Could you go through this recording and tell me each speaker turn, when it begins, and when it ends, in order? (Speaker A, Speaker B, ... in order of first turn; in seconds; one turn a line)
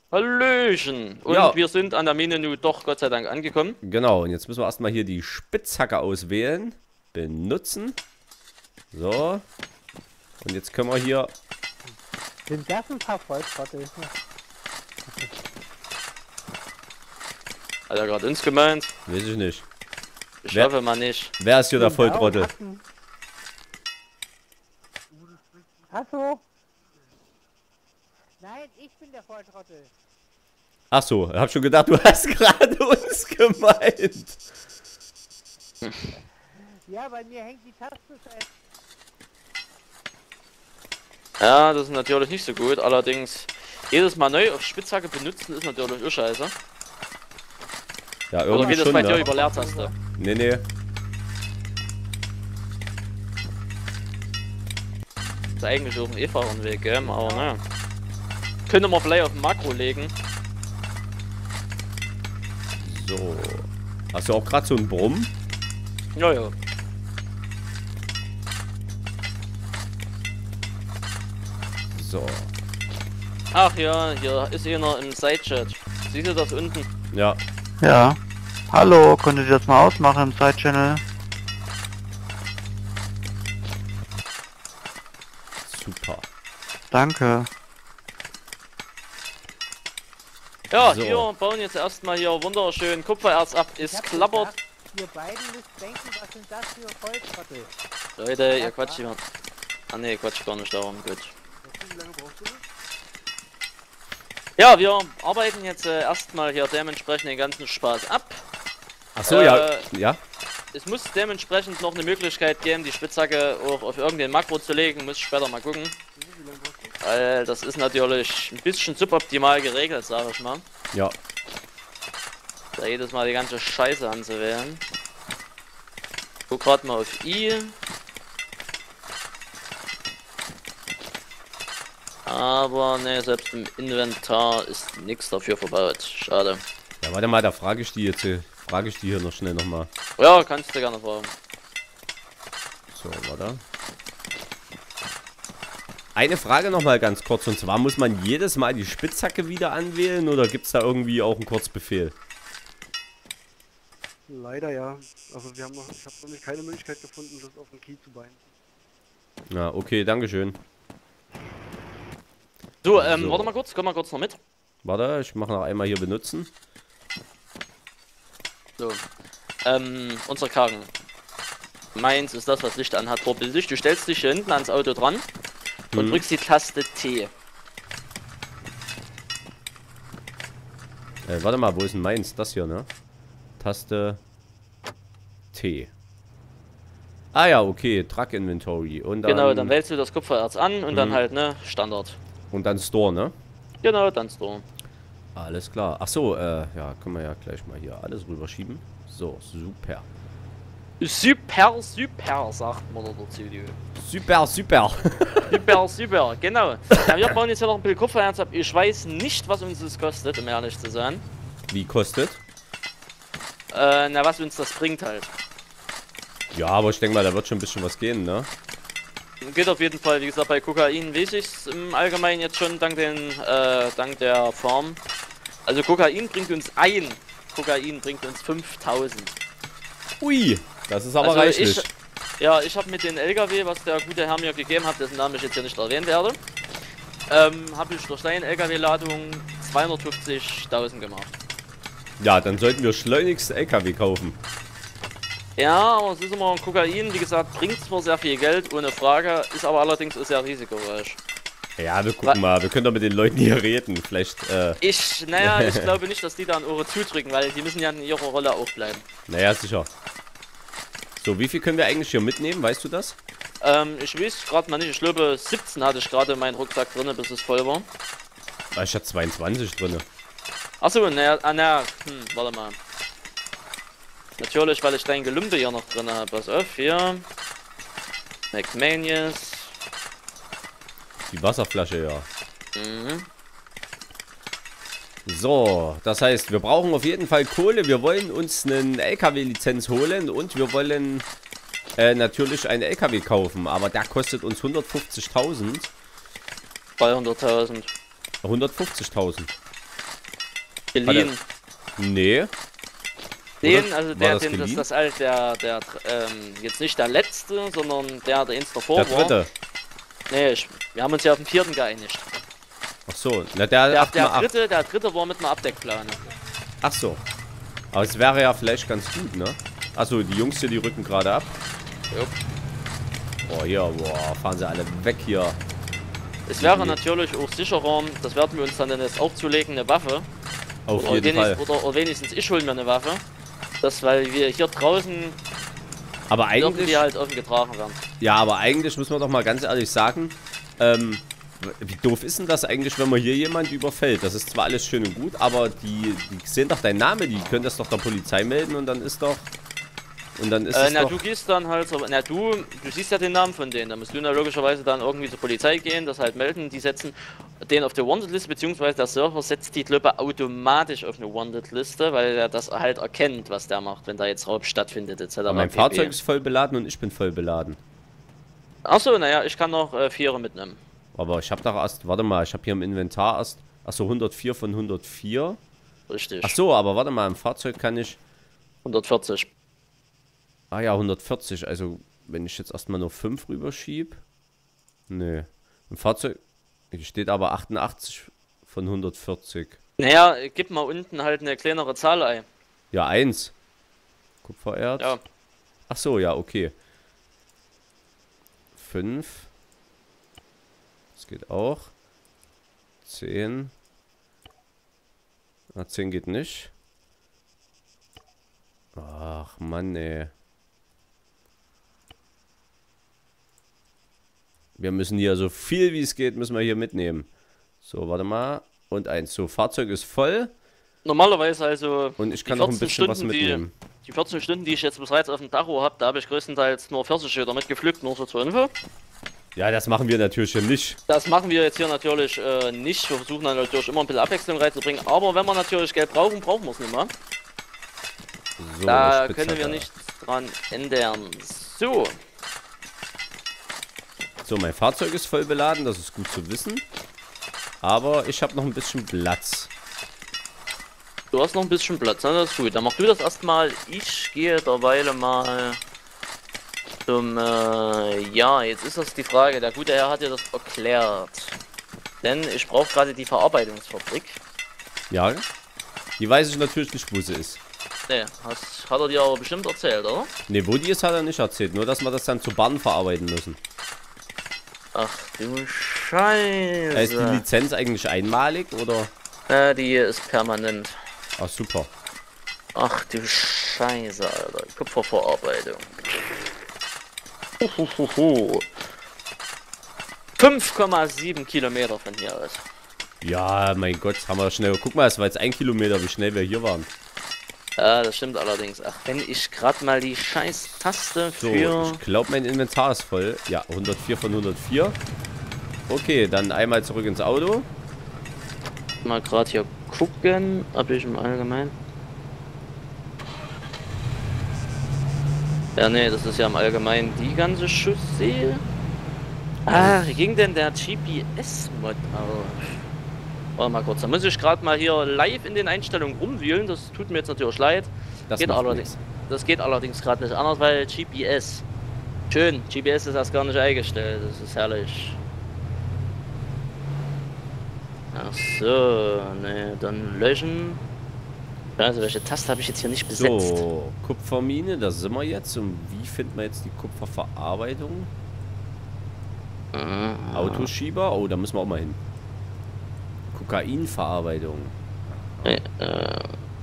Speaker A: 0.1-3.8
Speaker B: 1.3-1.6
Speaker B: 3.8-8.0
Speaker B: 8.9-9.4
Speaker B: 10.4-11.3
Speaker C: 12.5-14.1
Speaker A: 17.9-18.9
Speaker B: 19.1-19.6
Speaker A: 20.4-21.3
Speaker B: 21.4-22.5
Speaker C: 21.7-22.8
Speaker C: 25.9-26.4
Speaker C: 28.4-29.9
Speaker B: 30.9-34.4
Speaker C: 36.8-38.5
Speaker A: 41.4-46.5
Speaker B: 48.3-49.3
Speaker A: 48.5-49.9
Speaker C: 48.5-49.9
Speaker B: 50.1-50.6
Speaker A: 55.6-57.6
Speaker A: 58.7-60.1
Speaker B: 62.8-65.3
Speaker A: 66.1-66.5
Speaker B: 71.9-72.5
Speaker A: 73.5-76.9
Speaker B: 77.1-77.4
Speaker D: 77.8-78.2
Speaker D: 78.7-81.0
Speaker B: 85.7-86.2
Speaker D: 86.9-87.5
Speaker A: 90.7-94.5
Speaker B: 90.8-91.3
Speaker C: 93.8-97.7
Speaker A: 98.2-99.2
Speaker C: 98.5-99.1
Speaker A: 99.9-101.3
Speaker E: 101.6-102.6
Speaker A: 104.6-108.4
Speaker B: 109.2-110.2
Speaker A: 109.2-109.9
Speaker A: 110.7-115.9
Speaker E: 116.2-116.9
Speaker A: 117.0-120.6
Speaker A: 122.8-124.8
Speaker A: 126.5-127.7
Speaker A: 132.2-136.6
Speaker B: 137.0-139.9
Speaker A: 140.2-141.3
Speaker B: 142.9-143.6
Speaker B: 146.1-152.1
Speaker E: 154.3-158.5
Speaker B: 159.5-160.6
Speaker A: 162.8-164.4
Speaker B: 162.9-163.5
Speaker B: 164.8-166.5
Speaker A: 169.6-170.9
Speaker A: 171.9-175.2
Speaker B: 175.9-176.2
Speaker A: 175.9-177.3
Speaker B: 181.2-182.9
Speaker B: 183.6-184.2
Speaker B: 185.5-185.9
Speaker B: 187.3-189.7
Speaker A: 189.3-192.2
Speaker B: 190.9-191.2
Speaker B: 192.5-193.3
Speaker A: 193.8-194.6
Speaker B: 195.3-200.1
Speaker A: 201.0-203.8
Speaker B: 203.9-205.8
Speaker A: 205.4-211.2
Speaker B: 211.7-212.4
Speaker A: 213.7-215.3
Speaker B: 216.5-218.5
Speaker A: 219.4-225.0
Speaker A: 225.7-229.4
Speaker B: 230.2-231.9
Speaker A: 231.2-231.9
Speaker A: 232.4-236.4
Speaker A: 237.3-241.3
Speaker B: 242.2-244.4
Speaker A: 245.6-251.2
Speaker B: 251.8-254.8
Speaker A: 254.8-259.0
Speaker B: 255.4-255.9
Speaker B: 259.3-259.9
Speaker B: 261.2-263.2
Speaker A: 263.6-267.9
Speaker B: 268.7-270.0
Speaker A: 270.8-272.8
Speaker A: 274.4-277.2
Speaker A: 278.5-279.7
Speaker B: 281.3-282.2
Speaker A: 282.7-283.3
Speaker B: 285.2-291.2
Speaker B: 292.0-295.9
Speaker A: 297.0-297.9
Speaker B: 298.4-299.5
Speaker A: 300.9-301.4
Speaker B: 301.0-301.3
Speaker B: 302.0-302.5
Speaker A: 303.6-309.4
Speaker B: 303.6-304.9
Speaker B: 308.9-309.5
Speaker A: 310.3-312.3
Speaker B: 313.1-314.5
Speaker A: 313.9-316.3
Speaker B: 316.8-317.2
Speaker B: 317.9-321.5
Speaker A: 322.1-322.4
Speaker B: 323.4-325.6
Speaker A: 326.5-330.3
Speaker B: 326.6-327.0
Speaker B: 330.9-331.6
Speaker A: 330.9-333.2
Speaker A: 333.8-335.4
Speaker B: 336.3-337.0
Speaker A: 336.6-338.0
Speaker B: 338.2-349.5
Speaker B: 350.4-351.2
Speaker A: 350.7-366.1
Speaker B: 365.5-367.8
Speaker A: 368.8-370.8
Speaker B: 371.1-375.6
Speaker A: 376.1-376.6
Speaker B: 376.4-378.2
Speaker A: 378.8-379.5
Speaker B: 380.7-384.2
Speaker B: 385.1-386.4
Speaker B: 386.9-389.8
Speaker A: 390.0-392.4
Speaker B: 392.9-393.5
Speaker B: 394.4-395.1
Speaker B: 395.9-396.7
Speaker B: 398.8-399.5
Speaker B: 401.1-401.9
Speaker B: 403.0-403.7
Speaker B: 405.7-406.7
Speaker B: 408.9-410.3
Speaker B: 414.8-417.3
Speaker B: 417.8-420.5
Speaker A: 421.0-428.7
Speaker B: 422.2-423.7
Speaker B: 429.6-431.0
Speaker A: 431.1-437.1
Speaker B: 438.6-439.9
Speaker A: 438.9-442.1
Speaker B: 444.4-446.8
Speaker B: 447.8-449.7
Speaker A: 451.3-455.8
Speaker A: 457.1-461.6
Speaker A: 462.2-464.4
Speaker B: 465.1-465.4
Speaker B: 466.2-467.6
Speaker A: 468.1-470.3
Speaker B: 470.5-473.6
Speaker A: 474.9-477.4
Speaker B: 476.9-479.1
Speaker A: 479.5-480.9
Speaker B: 481.4-481.9
Speaker A: 482.7-486.4
Speaker A: 487.6-488.7
Speaker A: 490.4-492.6
Speaker B: 493.2-496.9
Speaker A: 497.8-502.0
Speaker B: 501.4-505.0
Speaker B: 505.9-507.7
Speaker A: 509.0-511.7
Speaker A: 515.8-518.6
Speaker A: 519.7-522.8
Speaker B: 519.7-520.1
Speaker A: 523.6-531.6
Speaker B: 528.3-529.0
Speaker A: 532.3-535.2
Speaker A: 538.1-540.8
Speaker A: 541.8-543.6
Speaker B: 543.1-548.1
Speaker A: 549.7-550.7
Speaker B: 550.3-552.0
Speaker B: 553.3-555.6
Speaker A: 555.4-556.3